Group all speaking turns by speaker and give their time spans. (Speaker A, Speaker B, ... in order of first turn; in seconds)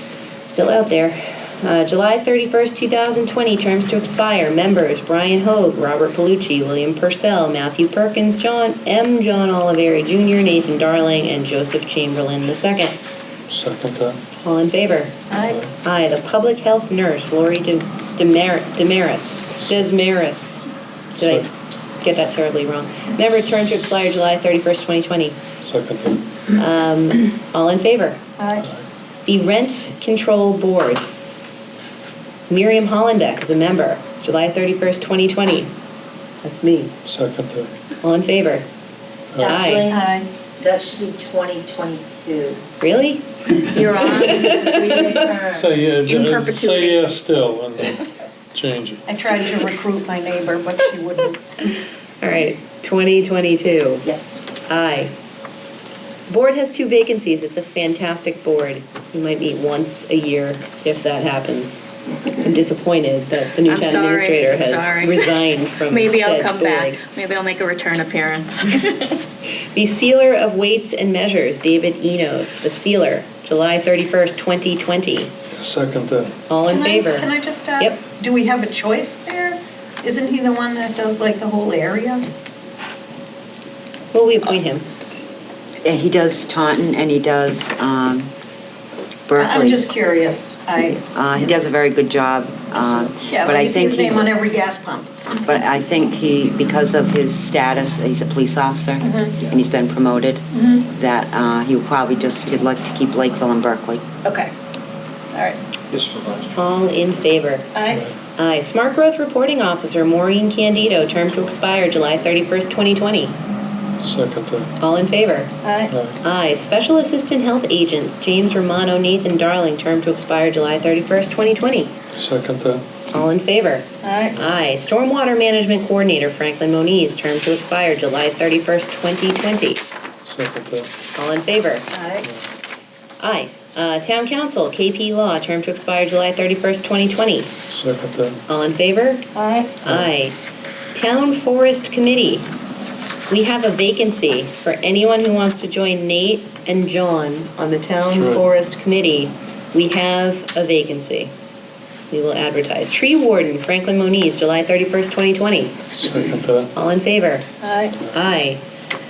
Speaker A: 0.4-13.0, 14.3-15.1, 15.8-21.5, 22.0-25.4, 26.5-28.2, 29.2-31.1, 32.5-35.7, 36.4-36.9, 38.0-38.6, 39.4-39.9, 42.8-45.2, 52.2-54.0, 54.7-55.1, 56.3-61.8, 62.3-67.0, 69.7-75.3, 76.5-78.0, 84.1-84.8, 106.5-107.7, 108.3-113.3, 114.8-115.5, 116.2-121.9, 123.1-129.8, 131.1-131.9, 133.2-137.5, 138.5-139.2, 139.8-140.3, 140.9-142.5, 143.3-151.3, 152.1-155.8, 156.7-157.5, 158.0-158.6
Speaker B: 13.5-14.2, 21.1-21.5, 25.6-26.2, 37.0-37.7, 39.3-39.6, 45.5-49.0, 75.5-76.3, 107.9-108.1, 114.0-114.7, 115.9-116.2, 122.1-122.8, 130.2-130.9, 137.7-138.4, 148.1-148.4, 155.9-156.7
Speaker C: 15.3-15.6, 28.4-28.7, 39.9-40.3, 49.1-51.4, 76.7-82.3, 89.4-91.0, 93.2-95.1, 99.0-99.4, 100.5-100.8, 104.2-104.5, 105.3-105.6, 107.7-108.0, 115.6-115.9, 124.0-124.3, 131.9-132.3, 139.3-139.8, 157.6-158.0
Speaker D: 39.4-40.1, 40.6-42.6, 44.2-45.7
Speaker E: 43.6-44.6, 46.0-47.0, 63.7-69.1
Speaker F: 85.8-88.3, 89.3-89.9, 91.0-94.4, 95.4-104.0